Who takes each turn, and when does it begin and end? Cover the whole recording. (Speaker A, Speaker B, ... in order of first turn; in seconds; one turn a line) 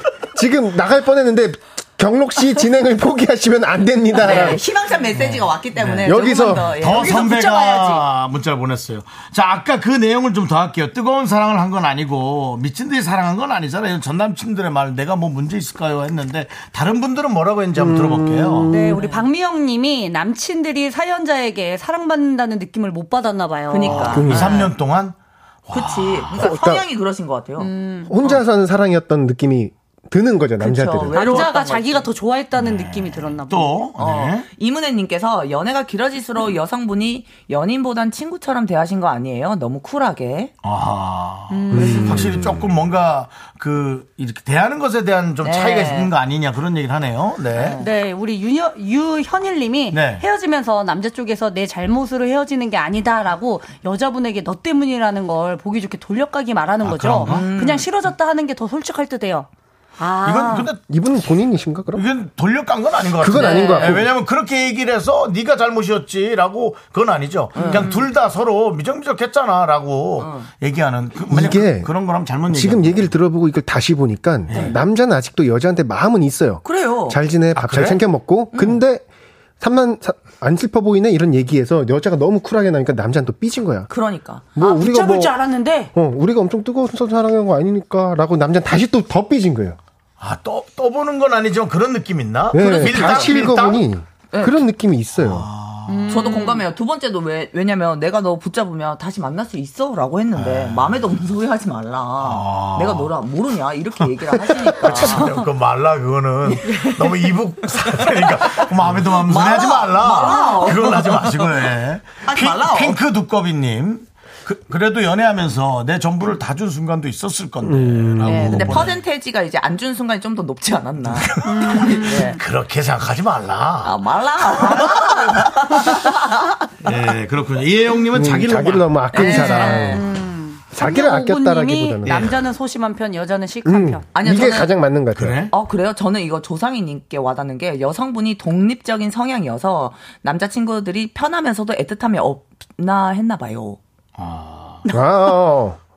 Speaker A: 0.3-4.6
Speaker B: 4.2-7.1
Speaker C: 4.2-4.6
Speaker C: 5.1-18.7
Speaker A: 6.0-6.8
Speaker D: 6.9-8.0
Speaker A: 17.7-19.0
Speaker D: 18.7-24.4
Speaker B: 18.9-19.2
Speaker B: 23.7-24.7
Speaker C: 23.8-25.1
Speaker A: 24.1-24.7
Speaker C: 25.7-26.4
Speaker B: 25.7-27.7
Speaker A: 26.3-26.8
Speaker D: 27.6-28.1
Speaker A: 28.1-31.3
Speaker B: 30.6-32.1
Speaker D: 31.1-33.9
Speaker C: 32.6-34.5
Speaker B: 34.0-40.5
Speaker C: 40.6-47.8
Speaker D: 41.5-42.3
Speaker A: 41.7-42.6
Speaker B: 45.4-46.1
Speaker B: 47.5-47.9
Speaker D: 47.8-60.7
Speaker C: 49.9-50.2
Speaker C: 56.8-57.5
Speaker B: 57.2-57.9
Speaker C: 60.2-60.8
Speaker A: 60.9-62.0
Speaker C: 61.9-73.1
Speaker A: 63.2-64.1
Speaker D: 63.3-64.0
Speaker B: 67.5-67.9
Speaker B: 70.2-70.5
Speaker A: 71.3-71.9
Speaker A: 72.5-79.0
Speaker C: 74.5-74.8
Speaker B: 76.6-77.2
Speaker C: 77.5-78.0
Speaker B: 78.5-78.8
Speaker A: 79.6-83.9
Speaker B: 83.9-84.5
Speaker A: 84.5-85.3
Speaker D: 84.6-85.9
Speaker A: 85.9-89.8
Speaker C: 90.2-93.9
Speaker A: 92.5-95.5
Speaker B: 92.6-93.2
Speaker B: 94.3-94.6
Speaker C: 95.1-96.3
Speaker D: 95.9-96.7
Speaker B: 96.1-105.3
Speaker C: 100.3-101.2
Speaker C: 102.2-103.1
Speaker C: 104.5-119.0
Speaker B: 106.5-107.1
Speaker B: 109.2-111.6
Speaker D: 110.2-110.8
Speaker B: 112.2-113.0
Speaker A: 117.6-118.8
Speaker B: 118.3-122.4
Speaker C: 121.1-125.5
Speaker D: 121.4-122.4
Speaker B: 123.8-126.5
Speaker C: 126.8-130.0
Speaker A: 128.1-130.0
Speaker B: 129.1-130.0
Speaker D: 129.5-134.1
Speaker A: 130.7-132.3
Speaker C: 132.0-132.3
Speaker A: 133.6-135.4
Speaker B: 134.1-134.7
Speaker C: 135.1-135.5
Speaker B: 135.5-143.8
Speaker C: 144.2-144.9
Speaker A: 144.9-145.8